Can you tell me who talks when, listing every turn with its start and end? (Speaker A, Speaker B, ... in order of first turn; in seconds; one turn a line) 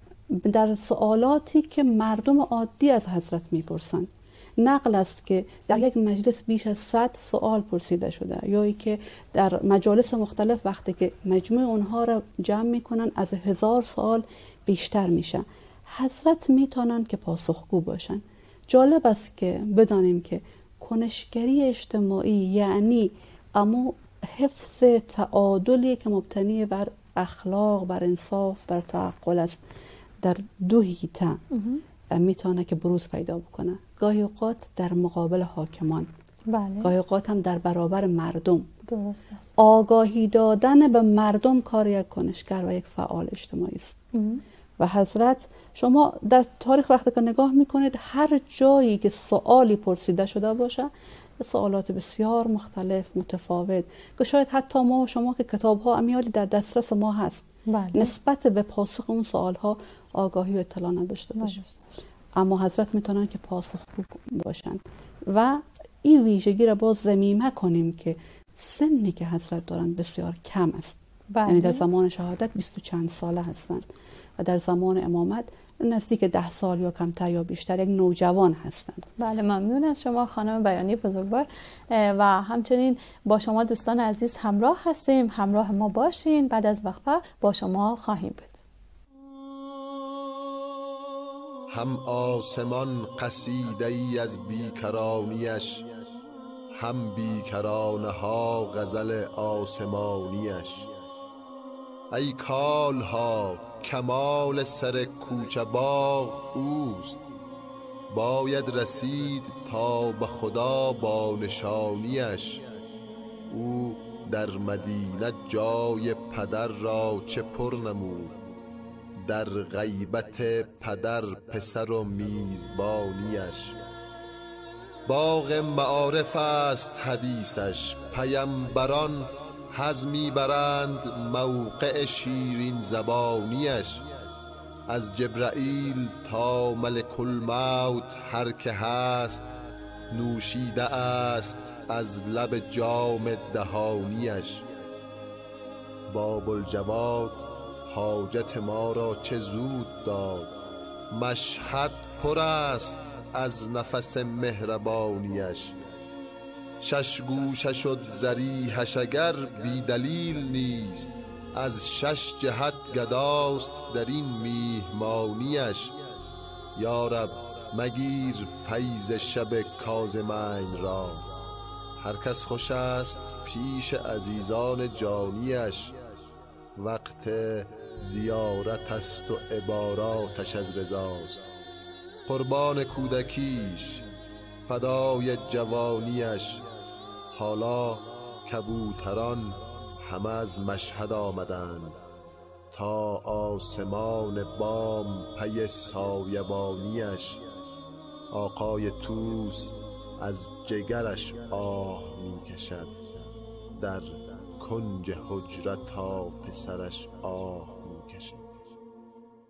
Speaker A: 0.3-29.6
Speaker A: 30.2-31.4
Speaker B: 31.5-31.8
Speaker A: 32.1-36.1
Speaker B: 36.5-36.9
Speaker A: 36.8-38.7
Speaker B: 38.9-39.5
Speaker A: 39.6-44.0
Speaker B: 44.1-44.4
Speaker A: 44.8-61.6
Speaker B: 57.7-58.1
Speaker B: 61.4-61.7
Speaker A: 62.4-73.8
Speaker B: 71.3-71.8
Speaker A: 74.4-79.1
Speaker B: 79.2-88.6
Speaker C: 91.7-95.9
Speaker C: 96.8-100.9
Speaker C: 102.1-107.2
Speaker C: 108.1-112.6
Speaker C: 113.5-118.4
Speaker C: 119.2-123.8
Speaker C: 125.1-134.0
Speaker C: 134.9-139.5
Speaker C: 140.1-144.7
Speaker C: 146.1-150.6
Speaker C: 151.1-155.8
Speaker C: 156.8-165.9
Speaker C: 166.8-171.3
Speaker C: 172.0-176.0
Speaker C: 176.8-181.4
Speaker C: 182.3-184.1
Speaker C: 184.7-186.6
Speaker C: 187.4-192.0
Speaker C: 192.7-197.4
Speaker C: 198.3-203.0
Speaker C: 203.8-208.4